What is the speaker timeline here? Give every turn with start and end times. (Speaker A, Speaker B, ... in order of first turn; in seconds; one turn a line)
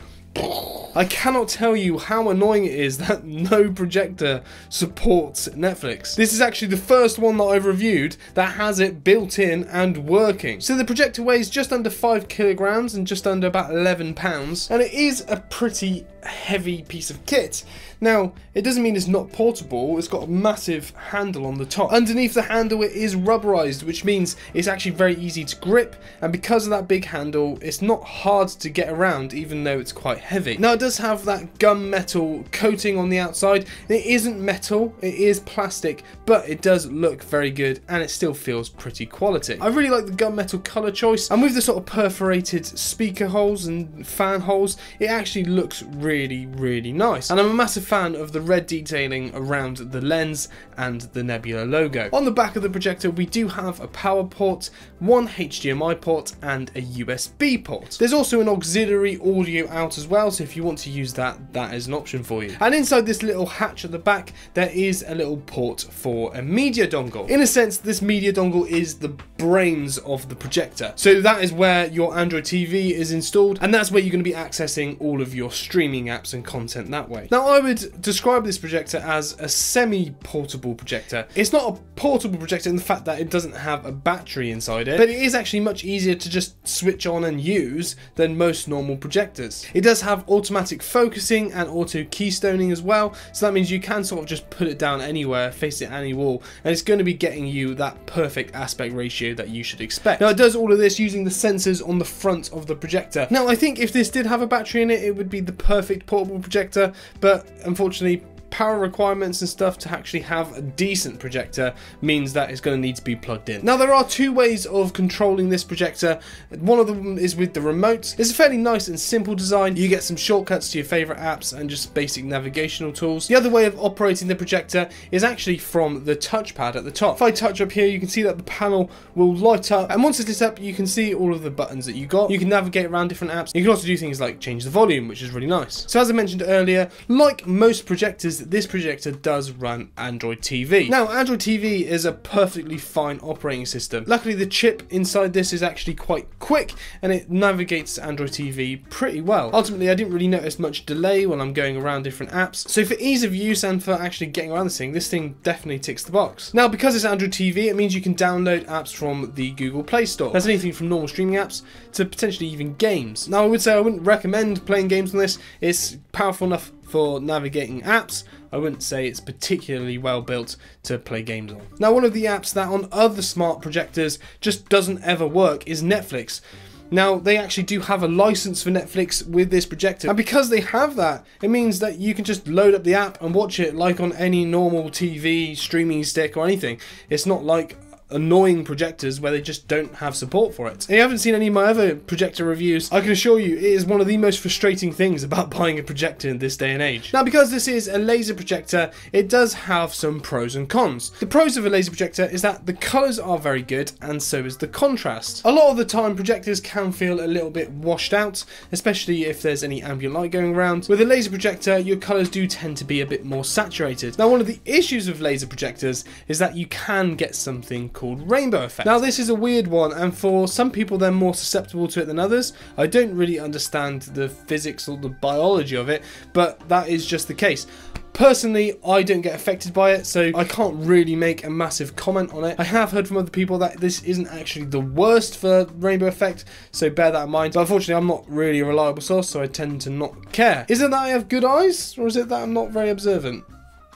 Speaker A: 0.3-243.4